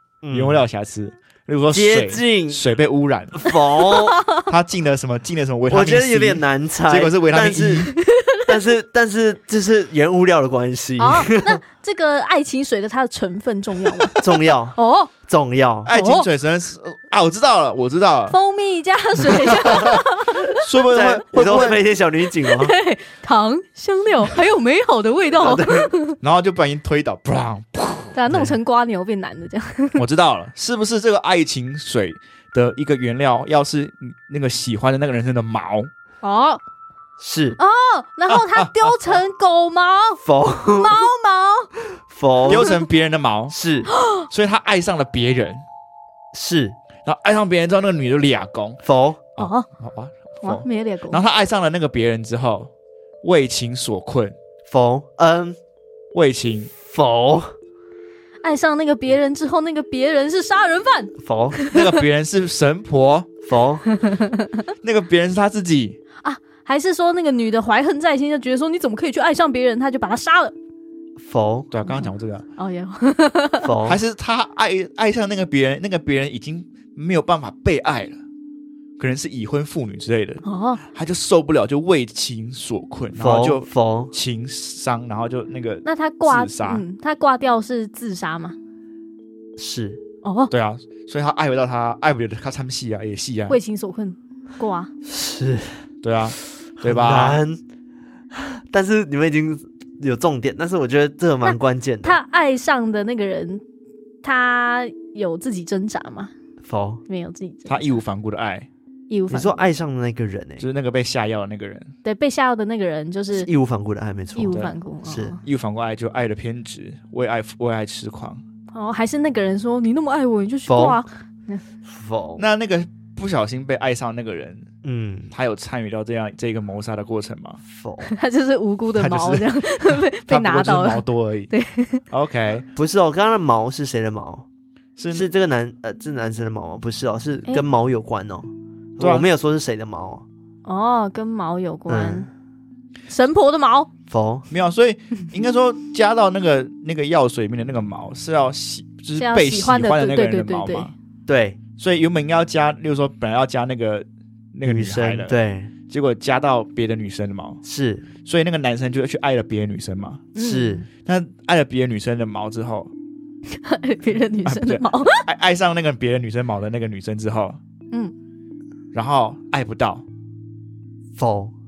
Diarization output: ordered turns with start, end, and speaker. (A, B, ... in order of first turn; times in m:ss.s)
0:00.2-0:00.6 A
0:00.3-0:03.5 B
0:01.7-0:02.6 A
0:03.4-0:04.2 A
0:04.2-0:04.4 C
0:04.4-0:07.9 B
0:05.7-0:07.9 A
0:08.0-0:08.5 C
0:08.4-0:11.6 A
0:11.0-0:14.2 C
0:14.1-0:15.9 A
0:14.7-0:15.1 C
0:15.9-0:18.4 B
0:15.9-0:16.3 C
0:18.3-0:20.7 C
0:19.5-0:21.8 B
0:20.9-0:22.7 A
0:22.4-0:26.2 C
0:25.4-0:25.9 A
0:26.2-0:28.6 B
0:28.1-0:30.0 C
0:30.0-0:35.9 B
0:36.2-0:36.6 C
0:37.2-0:37.6 A
0:37.6-0:41.7 C
0:38.3-0:39.0 B
0:40.2-0:41.0 A
0:42.1-0:42.7 A
0:42.4-0:43.6 B
0:43.5-0:43.9 A
0:43.9-0:44.2 C
0:44.3-0:45.6 B
0:46.3-0:46.8 A
0:47.0-0:48.8 B
0:48.8-0:49.2 A
0:49.4-0:52.7 B
0:49.4-0:49.7 C
0:50.4-0:51.2 C
0:53.2-0:54.4 B
0:54.7-0:55.6 A
0:56.1-0:56.7 B
0:56.8-0:57.5 A
0:58.4-1:01.9 C
1:01.2-1:01.7 A
1:01.7-1:03.3 B
1:03.4-1:03.9 A
1:03.9-1:04.6 C
1:04.8-1:06.0 B
1:06.2-1:10.5 C
1:11.2-1:11.7 A
1:11.7-1:12.4 B
1:11.9-1:13.7 C
1:13.6-1:14.0 A
1:13.8-1:18.2 B
1:19.0-1:26.8 B
1:20.4-1:20.8 C
1:23.1-1:24.1 A
1:25.8-1:28.6 C
1:29.6-1:30.0 A
1:30.2-1:30.5 C
1:30.5-1:33.6 B
1:33.5-1:34.9 C
1:35.0-1:35.8 A
1:36.0-1:37.4 B
1:36.8-1:37.6 A
1:38.3-1:42.2 A
1:41.4-1:43.6 C
1:44.2-1:46.3 C
1:46.6-1:47.0 A
1:47.1-1:47.9 C
1:47.6-1:48.7 B
1:49.1-1:49.6 C
1:49.3-1:50.6 A
1:50.6-1:51.9 B
1:52.0-1:53.5 C
1:53.3-1:55.4 A
1:54.4-1:55.4 C
1:55.4-1:58.4 B
1:58.7-2:01.6 C
2:00.7-2:01.0 A
2:01.9-2:02.4 A
2:02.4-2:04.7 B
2:04.8-2:05.3 A
2:05.3-2:07.6 B
2:07.6-2:08.1 A
2:08.0-2:12.0 C
2:09.0-2:11.5 B
2:12.1-2:12.6 B
2:12.7-2:14.5 A
2:15.0-2:15.3 B
2:15.1-2:20.2 A
2:19.0-2:19.3 B
2:20.6-2:22.3 C
2:21.9-2:22.3 A
2:23.1-2:23.9 C
2:24.1-2:24.5 A
2:24.5-2:30.9 B
2:29.2-2:30.9 C
2:31.3-2:31.6 A
2:31.8-2:35.4 B
2:34.6-2:35.7 A
2:35.9-2:37.6 B
2:37.6-2:38.1 A
2:38.2-2:40.3 B
2:40.4-2:40.9 C
2:40.4-2:40.9 A
2:41.0-2:42.9 B
2:43.5-2:45.3 C
2:44.4-2:47.6 B
2:48.9-2:50.0 B
2:51.2-2:51.5 A